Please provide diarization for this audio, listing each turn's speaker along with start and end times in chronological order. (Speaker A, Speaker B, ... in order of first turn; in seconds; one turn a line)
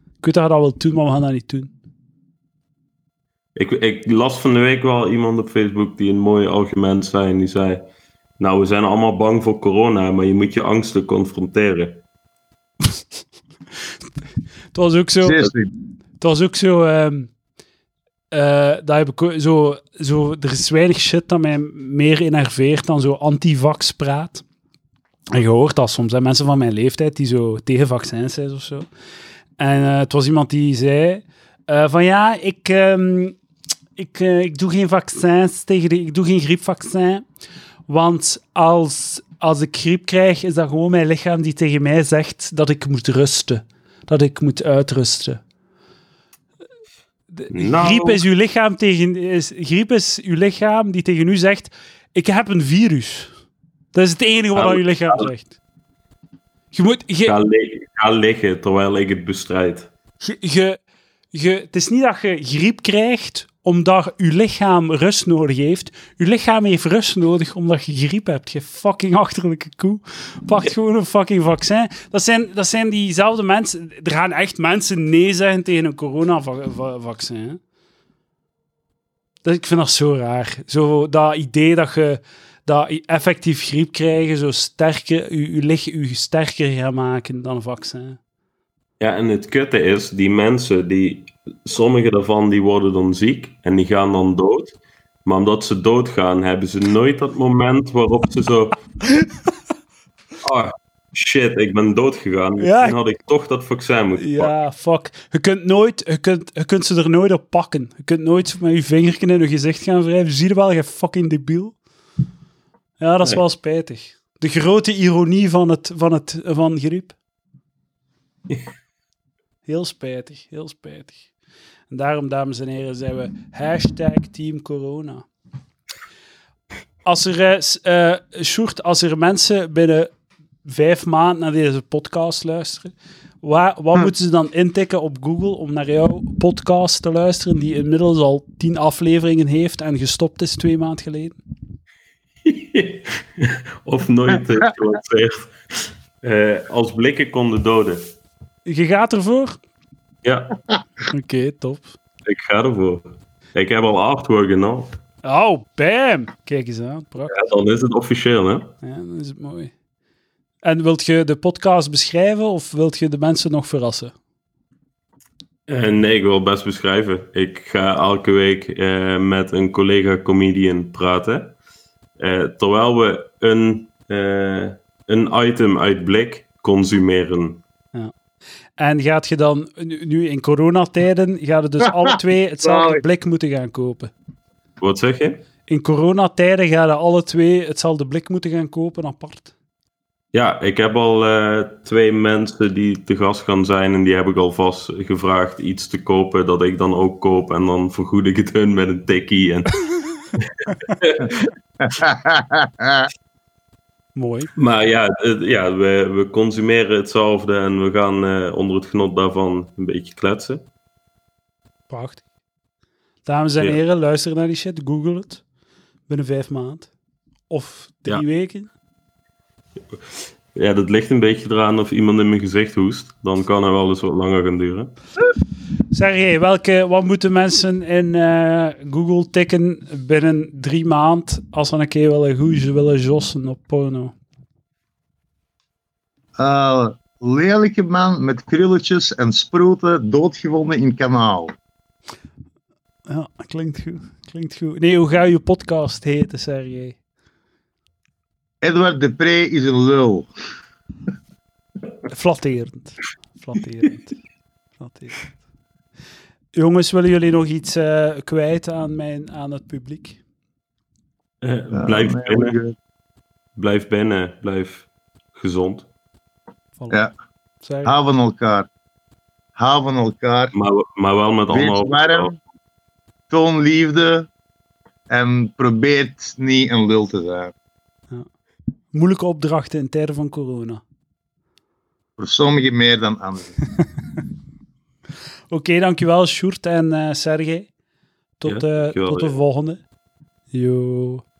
Speaker A: 0.2-1.7
Speaker B: 3.5-7.8
Speaker B: 8.4-12.0
Speaker A: 14.7-15.5
Speaker C: 15.2-15.7
Speaker A: 16.2-17.3
Speaker A: 18.3-24.4
Speaker A: 25.3-28.9
Speaker A: 29.6-33.4
Speaker A: 34.0-37.2
Speaker A: 37.9-45.4
Speaker A: 47.3-53.3
Speaker B: 47.5-48.2
Speaker A: 53.9-55.5
Speaker B: 54.5-55.3
Speaker A: 56.7-57.4
Speaker B: 57.2-59.9
Speaker A: 60.2-60.8
Speaker A: 61.3-77.6
Speaker A: 79.4-88.2
Speaker B: 89.0-98.8
Speaker B: 100.4-104.5
Speaker A: 102.6-103.0
Speaker A: 104.2-111.8
Speaker A: 113.0-117.1
Speaker A: 119.7-121.2
Speaker A: 121.9-125.2
Speaker A: 127.0-130.1
Speaker A: 130.6-141.4
Speaker B: 142.4-148.0
Speaker A: 148.7-149.6
Speaker B: 150.2-150.5
Speaker A: 151.1-151.9
Speaker B: 152.2-155.0
Speaker A: 155.2-157.3
Speaker B: 157.3-158.7
Speaker A: 158.8-159.7
Speaker A: 160.6-164.1
Speaker B: 165.7-171.5
Speaker B: 172.2-177.6
Speaker A: 178.8-184.1
Speaker C: 181.9-183.0
Speaker B: 184.8-185.4
Speaker A: 185.7-189.5
Speaker B: 190.3-199.7
Speaker B: 200.4-201.5
Speaker C: 201.8-203.1
Speaker A: 204.1-204.5
Speaker B: 204.6-210.6
Speaker A: 211.9-212.2
Speaker A: 213.2-215.4
Speaker A: 216.1-216.9
Speaker A: 217.5-218.7
Speaker B: 220.5-224.9
Speaker A: 225.9-234.1
Speaker C: 236.4-241.5
Speaker A: 243.1-247.0
Speaker C: 248.6-250.3
Speaker A: 252.1-254.2
Speaker A: 254.8-255.3
Speaker A: 256.5-260.2
Speaker B: 261.4-262.6
Speaker C: 261.7-262.7
Speaker B: 263.6-265.9
Speaker A: 267.6-267.9
Speaker C: 267.8-268.7
Speaker C: 269.6-270.5
Speaker B: 270.5-272.4
Speaker C: 271.5-272.3
Speaker C: 273.3-274.3
Speaker C: 275.1-277.5
Speaker A: 278.9-280.8
Speaker C: 282.2-283.5
Speaker A: 285.5-287.7
Speaker A: 288.4-289.8
Speaker B: 288.4-289.4
Speaker A: 290.5-291.2